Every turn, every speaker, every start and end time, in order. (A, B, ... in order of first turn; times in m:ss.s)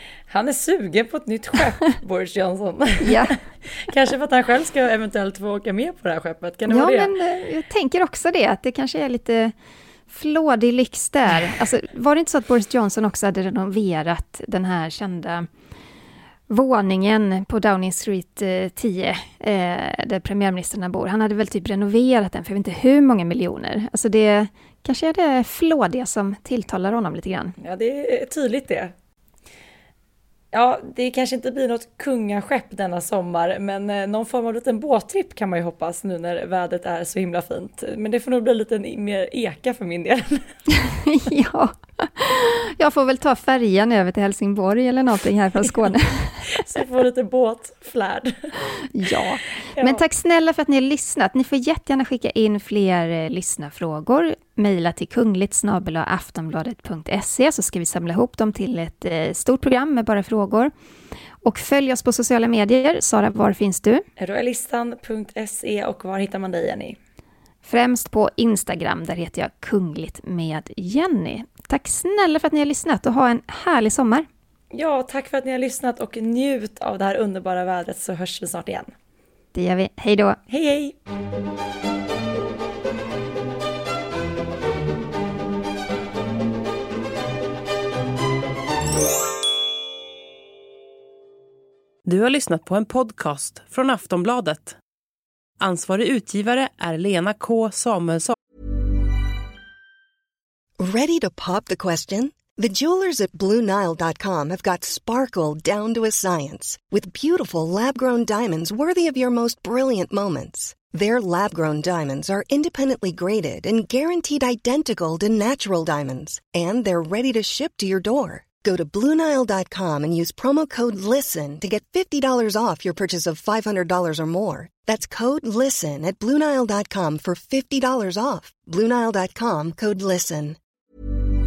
0:00.3-0:07.2 A
0:03.0-0:03.4 B
0:06.7-0:09.5 B
0:10.1-0:15.5 B
0:16.5-0:27.6 B
0:27.6-0:28.9 A
0:30.5-0:40.5 A
0:40.7-0:46.6 B
0:45.6-0:45.9 A
0:46.5-0:48.8 A
0:48.9-1:00.7 B
0:49.7-0:50.0 A
1:01.4-1:04.1 B
1:04.2-1:07.0 A
1:07.6-1:14.3 B
1:14.7-1:18.9 A
1:19.5-1:20.4 B
1:20.5-1:21.0 A
1:32.0-1:34.8 C
1:35.6-1:38.4 C
1:40.8-2:10.6 D